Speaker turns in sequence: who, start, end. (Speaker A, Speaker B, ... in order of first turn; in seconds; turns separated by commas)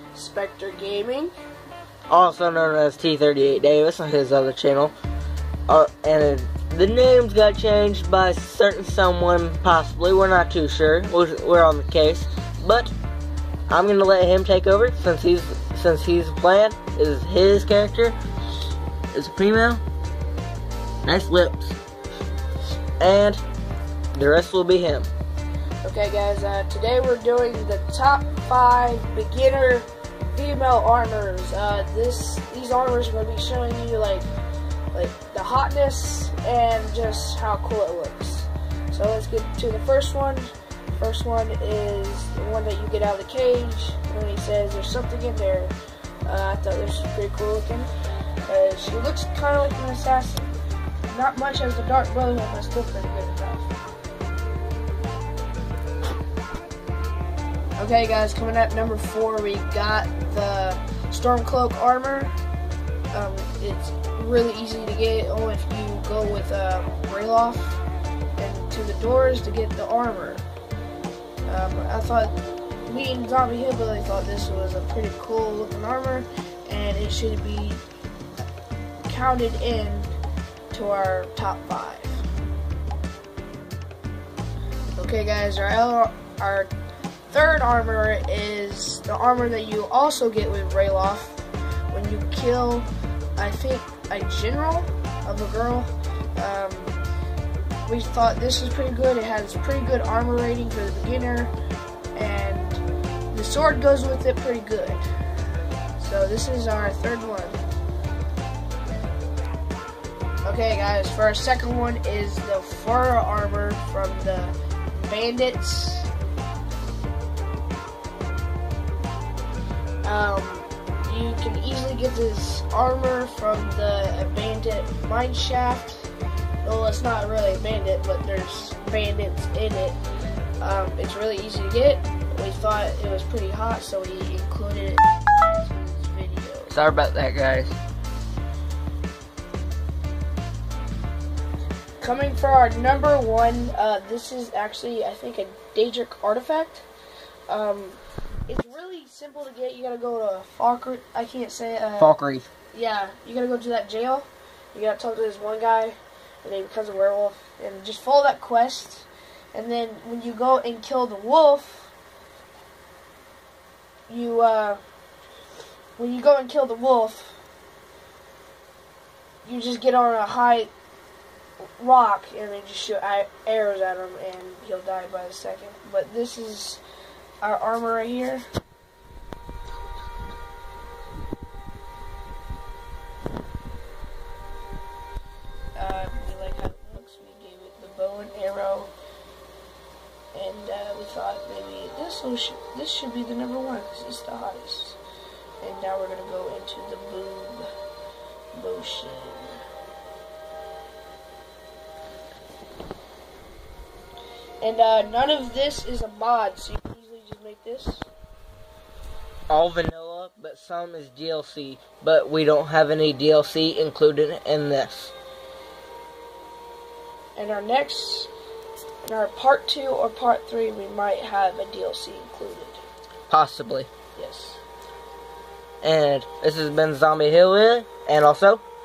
Speaker A: 0.1-1.3, Speaker B: 2.1-4.9, Speaker B: 5.7-12.9, Speaker B: 13.7-18.1, Speaker B: 19.1-19.8, Speaker B: 21.0-21.8, Speaker B: 23.0-23.4, Speaker B: 24.1-25.1, Speaker A: 25.8-34.3, Speaker A: 34.9-45.7, Speaker A: 46.2-47.9, Speaker A: 48.5-50.5, Speaker A: 51.1-53.7, Speaker A: 57.8-62.3, Speaker A: 63.1-67.8, Speaker A: 68.4-70.5, Speaker A: 71.5-72.3, Speaker A: 72.8-77.8, Speaker A: 79.0-80.1, Speaker A: 80.7-82.2, Speaker A: 85.0-86.7, Speaker A: 87.3-97.0, Speaker A: 97.8-101.5, Speaker A: 102.1-105.0, Speaker A: 106.0-107.6, Speaker A: 110.4-116.1, Speaker A: 120.0-126.1, Speaker A: 126.6-130.0, Speaker A: 130.6-136.7, Speaker B: 136.7-137.7, Speaker A: 142.0-146.8, Speaker A: 147.5-152.2, Speaker B: 152.0-152.5, Speaker A: 152.7-161.9, Speaker A: 164.1-164.8, Speaker A: 166.0-167.3, Speaker A: 169.4-170.7, Speaker A: 171.8-176.8, Speaker A: 177.4-178.4, Speaker A: 185.8-188.9, Speaker A: 190.3-195.0, Speaker A: 195.6-197.7, Speaker A: 198.5-199.5, Speaker A: 204.6-208.1, Speaker B: 209.5-215.1, Speaker A: 217.3-218.3, Speaker A: 219.0-222.8, Speaker B: 223.3-223.9, Speaker A: 224.2-224.6, Speaker B: 225.8-228.6